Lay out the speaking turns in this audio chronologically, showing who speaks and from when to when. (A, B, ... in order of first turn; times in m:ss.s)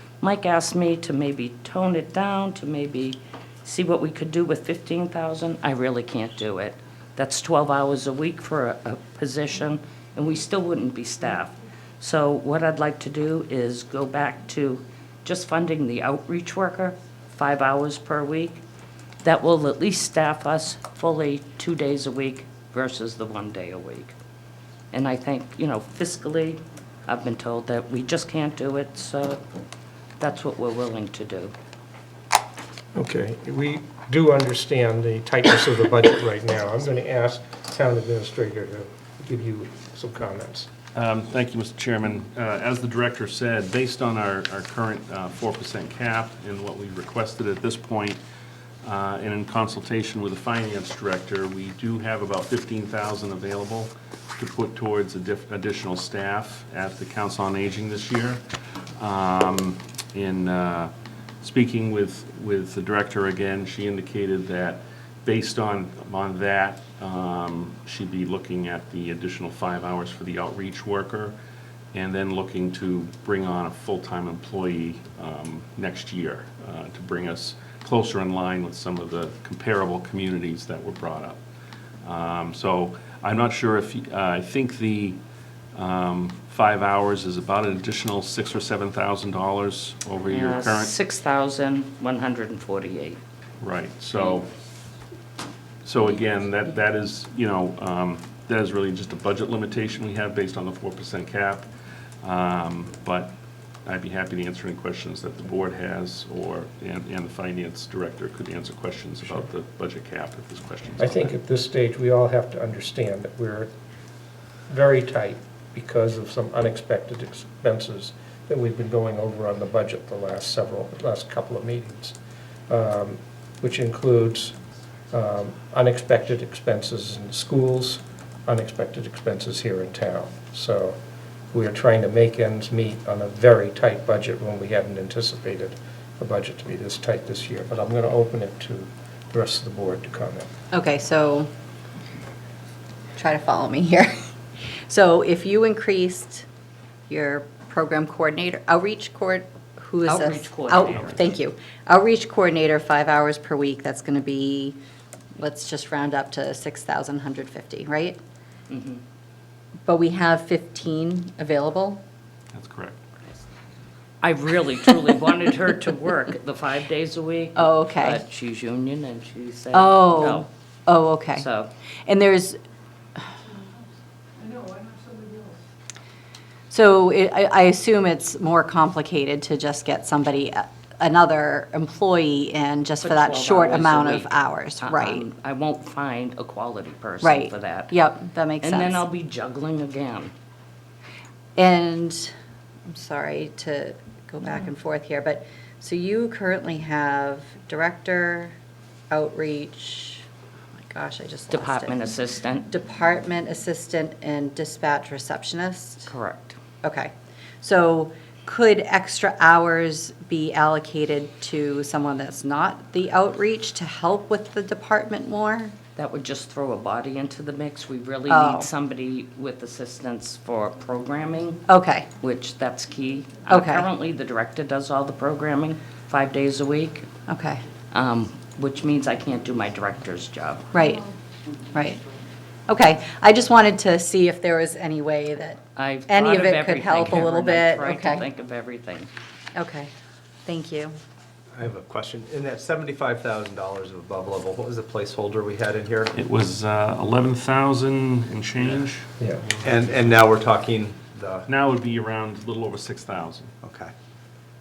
0:00.2-0:18.6 A
0:19.2-0:24.1 A
0:24.9-0:29.4 A
0:30.2-0:31.5 A
0:33.0-0:40.7 B
0:40.9-0:48.2 C
0:48.8-0:58.4 C
0:59.0-1:11.3 C
1:11.9-1:21.4 C
1:22.0-1:25.2 C
1:25.7-1:30.9 C
1:30.3-1:33.2 A
1:33.6-1:34.5 C
1:34.2-1:34.4 A
1:35.8-1:41.7 C
1:42.2-1:43.3 C
1:43.8-1:51.3 C
1:51.0-1:53.7 B
1:54.7-2:02.2 B
2:02.7-2:04.6 B
2:05.1-2:11.0 B
2:11.5-2:20.5 B
2:20.7-2:21.5 D
2:23.2-2:26.4 D
2:27.1-2:34.8 D
2:30.1-2:31.2 A
2:35.4-2:38.2 D
2:38.7-2:39.0 A
2:39.9-2:42.0 D
2:42.5-2:43.0 C
2:44.2-2:50.5 A
2:47.6-2:48.2 D
2:49.7-2:51.5 D
2:51.3-2:51.7 A
2:52.1-2:52.6 D
2:56.7-3:05.3 D
3:03.0-3:08.0 A
3:07.2-3:09.0 D
3:08.6-3:10.3 A
3:11.6-3:12.3 D
3:12.9-3:18.5 D
3:19.1-3:22.0 D
3:21.5-3:22.7 A
3:22.7-3:26.1 D
3:26.1-3:26.6 A
3:26.8-3:27.1 D
3:27.6-3:35.8 D
3:36.0-3:41.6 A
3:38.3-3:38.7 D
3:41.7-3:42.1 D
3:42.2-3:47.1 A
3:43.5-3:43.9 D
3:47.3-3:47.6 D
3:47.9-3:50.7 A
3:50.7-3:51.1 D
3:51.7-3:52.0 D
3:52.7-3:58.3 D
3:55.8-3:59.1 A
3:59.6-3:59.9 D
4:00.4-4:00.9 D
4:01.6-4:06.1 E
4:06.1-4:09.7 C
4:08.6-4:08.9 E
4:09.2-4:09.5 B
4:09.6-4:11.5 E
4:11.5-4:13.5 C
4:13.6-4:13.9 E